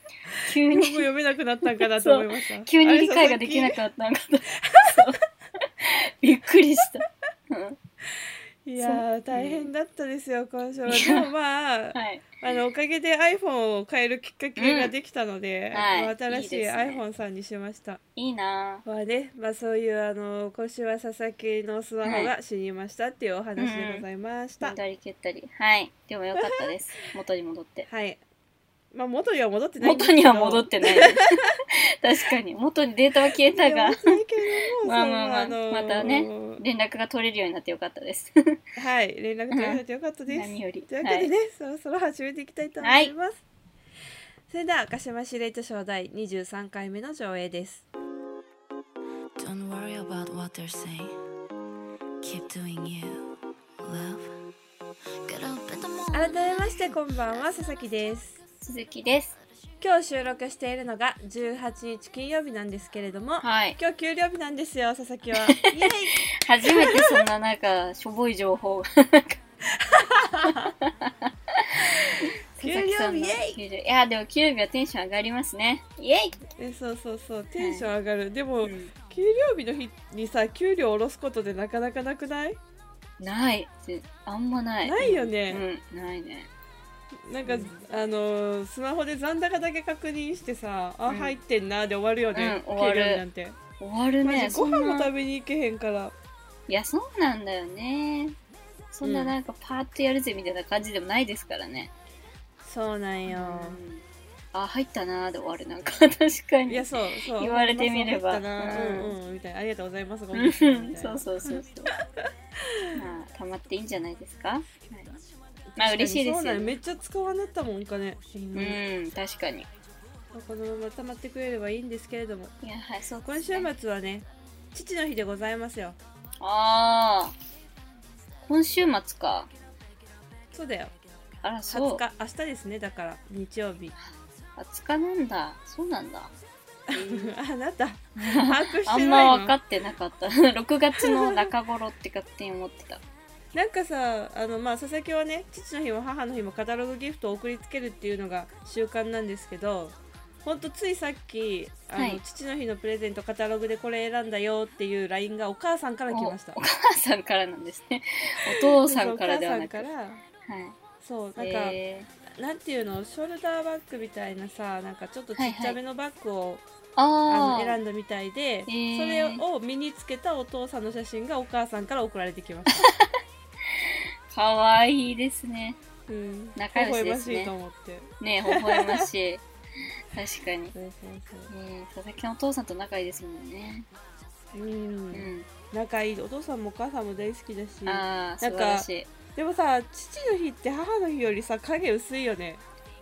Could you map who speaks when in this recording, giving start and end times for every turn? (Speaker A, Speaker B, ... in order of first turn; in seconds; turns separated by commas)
Speaker A: 0.3-3.8, Speaker B: 0.5-1.1, Speaker B: 1.8-7.8, Speaker A: 4.6-5.1, Speaker A: 8.6-18.0, Speaker B: 8.8-9.7, Speaker B: 10.9-11.3, Speaker B: 11.9-12.3, Speaker B: 14.6-14.9, Speaker B: 15.7-17.0, Speaker B: 18.1-18.8, Speaker A: 18.8-24.8, Speaker B: 22.0-22.3, Speaker B: 23.6-24.0, Speaker B: 24.6-27.9, Speaker A: 27.9-28.2, Speaker A: 28.9-31.2, Speaker B: 29.8-34.2, Speaker A: 33.4-36.6, Speaker B: 34.8-38.6, Speaker A: 38.8-43.4, Speaker B: 39.5-41.3, Speaker B: 42.8-43.1, Speaker A: 44.5-47.9, Speaker C: 49.4-51.2, Speaker C: 52.2-54.4, Speaker C: 55.2-56.3, Speaker A: 56.1-58.4, Speaker B: 58.6-59.4, Speaker A: 59.8-67.2, Speaker B: 63.4-63.8, Speaker B: 65.8-69.4, Speaker A: 69.8-70.7, Speaker B: 70.8-76.4, Speaker A: 72.0-73.6, Speaker A: 76.6-82.6, Speaker B: 77.6-77.9, Speaker B: 78.6-78.9, Speaker B: 83.2-86.5, Speaker A: 84.8-85.6, Speaker A: 87.2-93.5, Speaker B: 87.5-87.8, Speaker B: 91.1-91.3, Speaker B: 92.3-93.2, Speaker B: 93.8-95.1, Speaker A: 94.2-96.1, Speaker B: 96.7-98.3, Speaker B: 98.9-101.9, Speaker A: 99.0-99.3, Speaker A: 102.6-103.8, Speaker B: 103.3-109.1, Speaker A: 106.7-111.6, Speaker B: 110.3-111.9, Speaker B: 112.9-115.1, Speaker A: 115.7-118.8, Speaker B: 115.8-116.8, Speaker B: 118.5-119.7, Speaker A: 120.3-122.5, Speaker B: 122.6-123.7, Speaker A: 123.2-126.0, Speaker B: 126.4-127.3, Speaker B: 128.4-129.5, Speaker A: 130.5-130.9, Speaker B: 131.4-132.0, Speaker A: 131.7-133.9, Speaker B: 134.6-136.3, Speaker A: 136.9-139.5, Speaker B: 136.9-137.3, Speaker B: 138.2-143.0, Speaker A: 141.0-141.4, Speaker A: 143.5-156.6, Speaker B: 156.1-159.9, Speaker A: 158.5-160.2, Speaker B: 160.4-160.8, Speaker A: 161.0-161.8, Speaker B: 161.3-162.1, Speaker A: 162.4-166.6, Speaker B: 165.3-165.8, Speaker B: 166.9-167.8, Speaker A: 167.3-172.8, Speaker B: 168.7-169.4, Speaker B: 172.8-173.1, Speaker B: 173.7-175.8, Speaker A: 176.1-179.1, Speaker B: 176.5-177.5, Speaker B: 178.2-179.4, Speaker B: 180.1-180.7, Speaker A: 180.7-181.5, Speaker B: 181.5-183.9, Speaker A: 184.5-192.6, Speaker B: 185.1-185.5, Speaker B: 187.8-189.1